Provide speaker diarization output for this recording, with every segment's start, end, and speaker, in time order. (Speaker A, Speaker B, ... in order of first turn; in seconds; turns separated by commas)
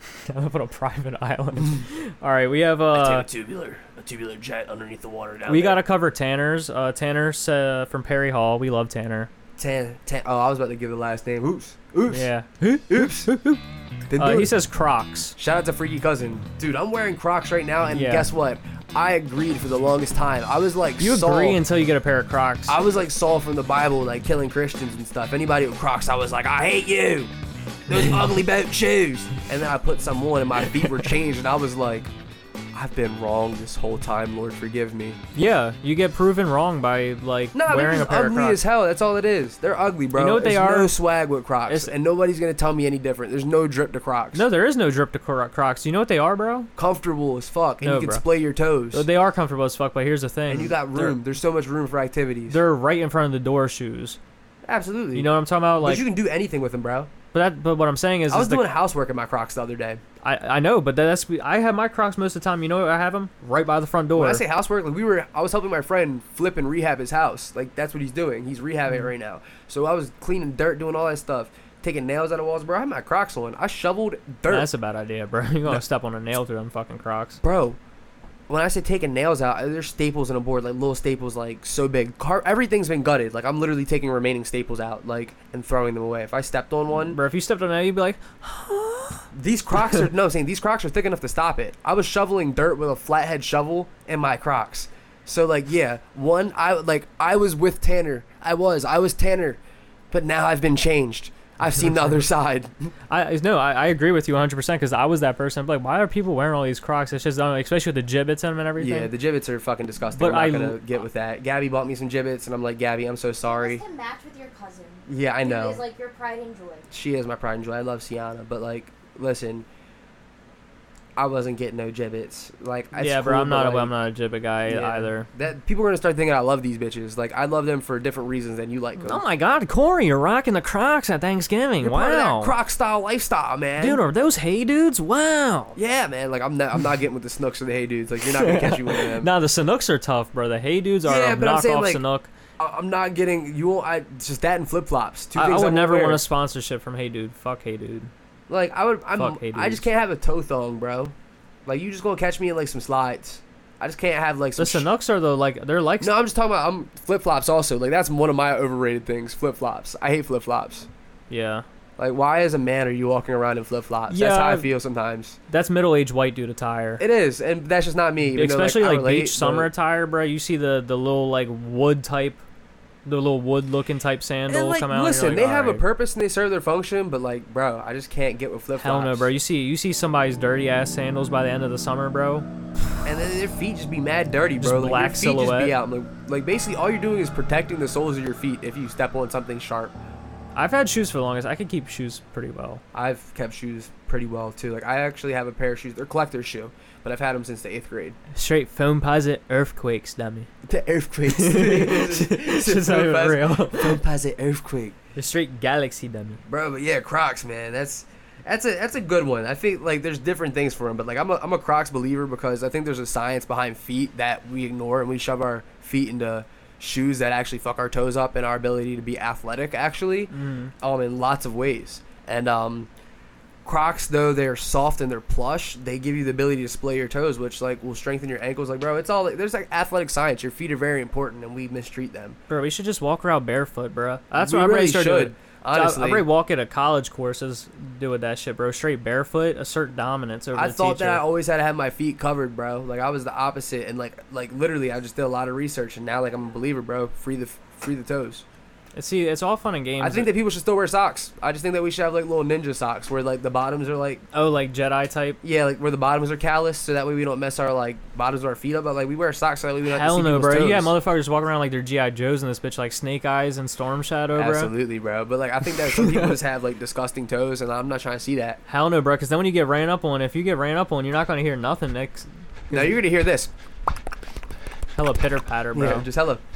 Speaker A: 0.3-3.2, Speaker B: 2.9-5.8, Speaker A: 5.5-9.3, Speaker B: 9.6-12.2, Speaker A: 12.1-13.6, Speaker B: 12.9-13.3, Speaker B: 14.1-14.5, Speaker A: 14.2-15.3, Speaker B: 15.4-21.6, Speaker A: 17.9-18.3, Speaker A: 21.0-22.8, Speaker B: 22.7-27.3, Speaker B: 27.9-32.1, Speaker A: 27.9-28.3, Speaker B: 32.7-35.2, Speaker A: 35.3-38.6, Speaker B: 37.5-44.4, Speaker A: 40.1-40.9, Speaker A: 41.7-41.9, Speaker A: 44.3-46.7, Speaker B: 46.8-49.0, Speaker A: 47.8-48.2, Speaker A: 48.9-51.1, Speaker B: 50.5-52.6, Speaker A: 52.5-54.2, Speaker B: 54.6-55.3, Speaker A: 55.1-56.0, Speaker B: 55.8-57.1, Speaker A: 57.3-58.7, Speaker B: 58.3-60.0, Speaker A: 60.2-64.4, Speaker B: 64.1-74.7, Speaker A: 74.5-77.4, Speaker B: 77.4-77.8, Speaker B: 78.5-87.2, Speaker A: 86.9-89.2, Speaker B: 89.3-99.6, Speaker B: 100.1-102.7, Speaker A: 103.1-109.1, Speaker B: 108.8-113.8, Speaker A: 110.1-110.8, Speaker C: 113.4-116.9, Speaker B: 115.1-115.8, Speaker B: 116.9-119.7, Speaker B: 121.2-123.9, Speaker A: 122.9-125.3, Speaker B: 124.7-129.2, Speaker A: 129.0-132.5, Speaker B: 131.8-134.0, Speaker A: 133.8-135.8, Speaker B: 135.7-139.3, Speaker A: 138.3-142.3, Speaker B: 141.1-142.0, Speaker B: 142.6-146.2, Speaker A: 145.3-148.1, Speaker B: 148.5-151.1, Speaker A: 149.2-149.8, Speaker B: 151.7-154.9, Speaker A: 154.6-156.2, Speaker B: 156.0-160.9, Speaker A: 161.3-161.6, Speaker B: 162.0-165.4, Speaker A: 164.1-164.7, Speaker A: 165.5-167.0, Speaker B: 167.0-169.7, Speaker A: 168.3-172.4, Speaker A: 173.1-175.8, Speaker B: 174.5-179.3, Speaker A: 178.8-182.5, Speaker B: 183.0-189.9, Speaker A: 184.6-185.8, Speaker A: 190.5-192.8, Speaker B: 192.9-198.2, Speaker A: 198.3-200.5, Speaker B: 200.7-204.9, Speaker A: 201.3-204.0, Speaker A: 205.2-206.4, Speaker B: 206.5-222.9, Speaker A: 220.3-220.7, Speaker B: 223.6-232.4, Speaker A: 232.5-241.2, Speaker B: 234.4-236.2, Speaker B: 240.5-248.4, Speaker A: 248.9-250.3, Speaker B: 250.0-254.2, Speaker A: 254.3-255.4, Speaker B: 255.4-260.9, Speaker A: 259.9-264.7, Speaker B: 264.3-268.6, Speaker A: 265.9-266.4, Speaker A: 268.7-272.9, Speaker B: 272.7-273.5, Speaker A: 274.9-276.1, Speaker B: 275.7-276.4